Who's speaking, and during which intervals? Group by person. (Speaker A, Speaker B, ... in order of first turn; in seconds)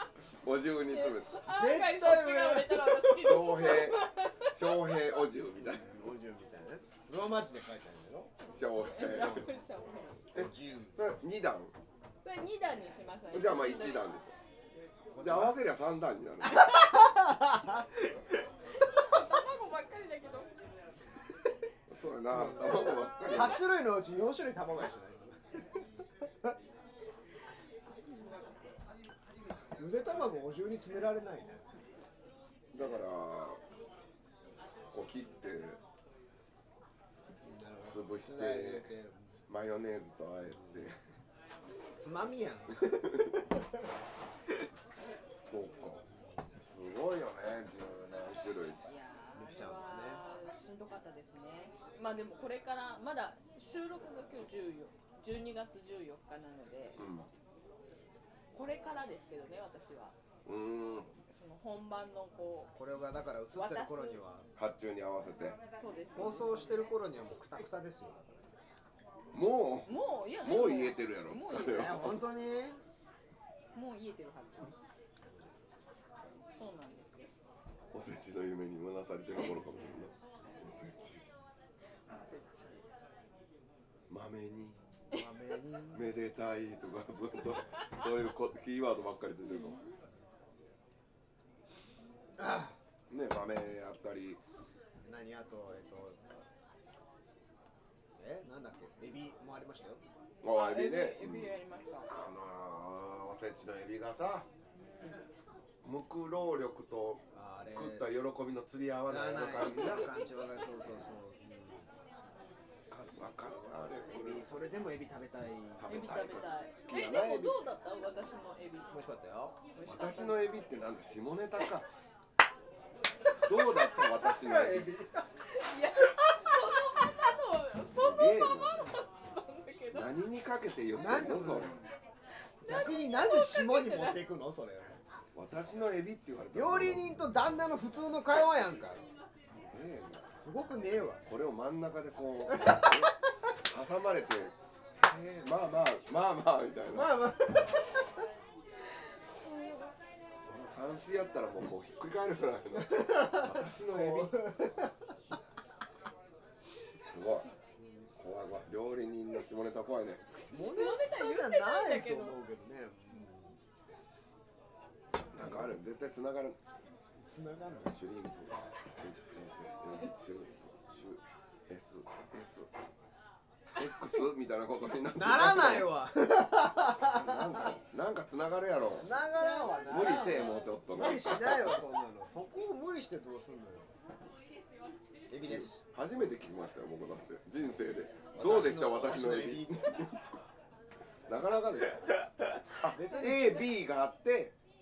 Speaker A: 0.4-1.4, 3.1-5.9, 8.4-9.5, 10.3-11.7, 13.3-14.3, 15.2-16.7, 21.9-23.6, 32.7-33.6, 34.9-35.8, 37.8-38.9, 39.5-41.0, 42.8-43.4, 45.5-48.8, 57.0-57.3, 60.5-61.1, 64.5-65.6, 69.3-72.3, 77.9-81.2, 84.1-84.8, 85.9-89.8, 93.1-94.4, 100.4-104.5, 105.8-110.1, 112.9-114.5, 115.8-117.7, 119.8-121.8, 123.4-124.9, 127.8-128.9, 129.9-131.8, 135.3-137.1, 139.5-140.3, 141.2-147.3, 150.4-154.7, 157.0-157.5, 158.2-160.4, 165.3-166.6, 167.8-172.7, 173.7-175.9, 177.0-179.1, 179.8-181.8, 185.5-190.2, 191.3-194.5
Speaker B: 0.8-5.2, 8.8-10.2, 12.2-14.1, 16.4-17.1, 18.8-20.5, 45.6-45.9, 48.8-57.0, 58.5-60.1, 61.2-62.7, 63.5-64.2, 65.8-66.9, 69.8-72.0, 73.7-74.7, 76.5-77.3, 82.1-82.8, 100.4-102.1, 104.7-105.2, 115.8-118.9, 119.7-120.6, 121.5-121.8, 123.8-124.2, 125.5-130.1, 132.6-134.2, 160.5-162.4, 179.2-180.8
Speaker C: 1.4-3.2, 5.6-8.3, 9.0-9.5, 10.3-11.1, 15.1-15.6, 16.6-17.9, 22.3-25.9, 29.8-31.7, 37.4-39.4, 42.0-43.8, 46.1-46.5, 49.3-50.2, 62.7-64.5, 66.1-68.5, 71.7-72.8, 85.1-86.1, 92.4-92.8, 95.0-96.4, 98.2-100.0, 107.3-108.2, 109.0-111.9, 114.1-116.1, 118.9-119.5, 124.2-125.3, 130.9-131.8, 132.6-135.0, 136.5-139.1, 140.4-141.2, 142.5-142.9, 146.9-147.9, 153.0-154.9, 157.8-158.1, 160.5-163.6, 165.4-165.7, 167.2-167.9, 175.1-177.7, 178.9-183.9, 185.3-185.8, 188.3-189.9, 192.8-193.7